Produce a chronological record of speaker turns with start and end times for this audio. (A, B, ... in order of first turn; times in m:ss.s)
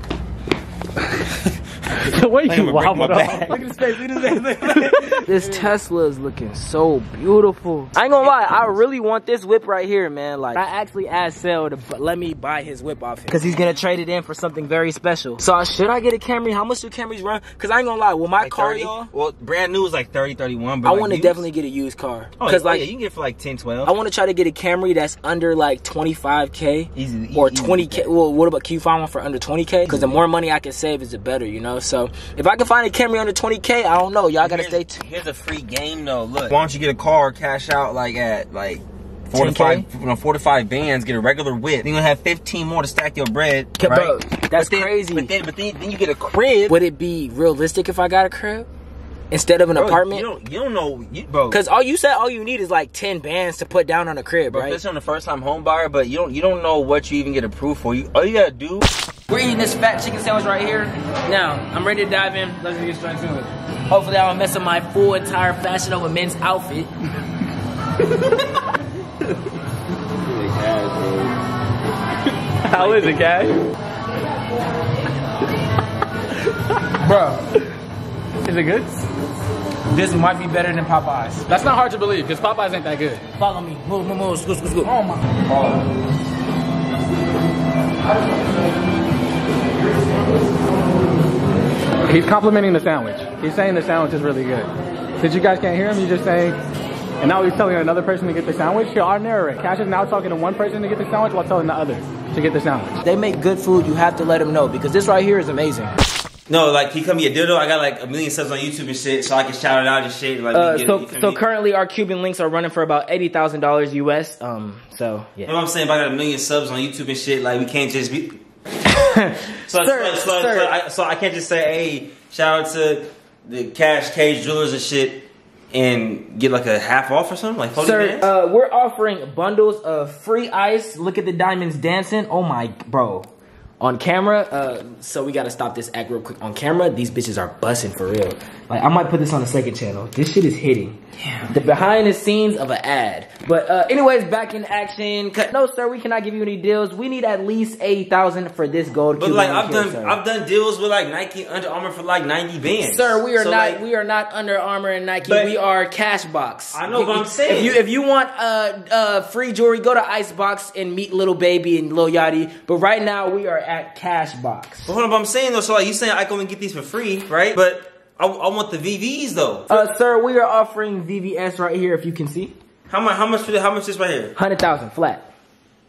0:02.0-0:05.7 A
0:02.2-0:03.6 B
0:03.7-0:19.1 C
0:08.2-0:08.8 B
0:13.3-0:13.9 B
0:18.4-0:21.4 B
0:20.8-0:22.9 C
0:22.4-0:23.9 B
0:23.8-0:35.0 C
0:26.9-0:28.1 B
0:29.9-0:30.2 B
0:34.4-0:46.8 B
0:39.3-0:39.8 C
0:43.8-0:45.3 C
0:46.7-0:48.7 C
0:49.3-0:50.2 C
0:49.7-0:51.6 B
0:51.5-0:54.8 C
0:54.5-0:58.8 B
0:59.3-1:06.9 C
1:10.3-1:11.1 B
1:12.6-1:13.6 A
1:12.7-1:13.2 C
1:17.0-1:17.4 C
1:18.4-1:19.1 A
1:19.8-1:21.4 C
1:21.5-1:23.2 A
1:23.4-1:24.9 C
1:24.8-1:25.4 A
1:32.1-1:34.7 A
1:35.2-1:36.6 A
1:37.2-1:43.0 A
1:43.0-1:45.9 C
1:46.5-1:51.4 B
1:50.5-1:55.5 C
1:55.4-1:58.4 B
1:58.8-2:00.7 C
1:59.6-2:08.3 B
2:07.8-2:13.3 C
2:13.8-2:30.2 C
2:29.2-2:33.8 B
2:32.8-2:44.9 C
2:35.2-2:35.6 B
2:36.7-2:37.8 B
2:44.8-2:49.9 B
2:49.7-2:52.5 C
2:52.9-2:54.3 B
2:54.4-2:55.3 C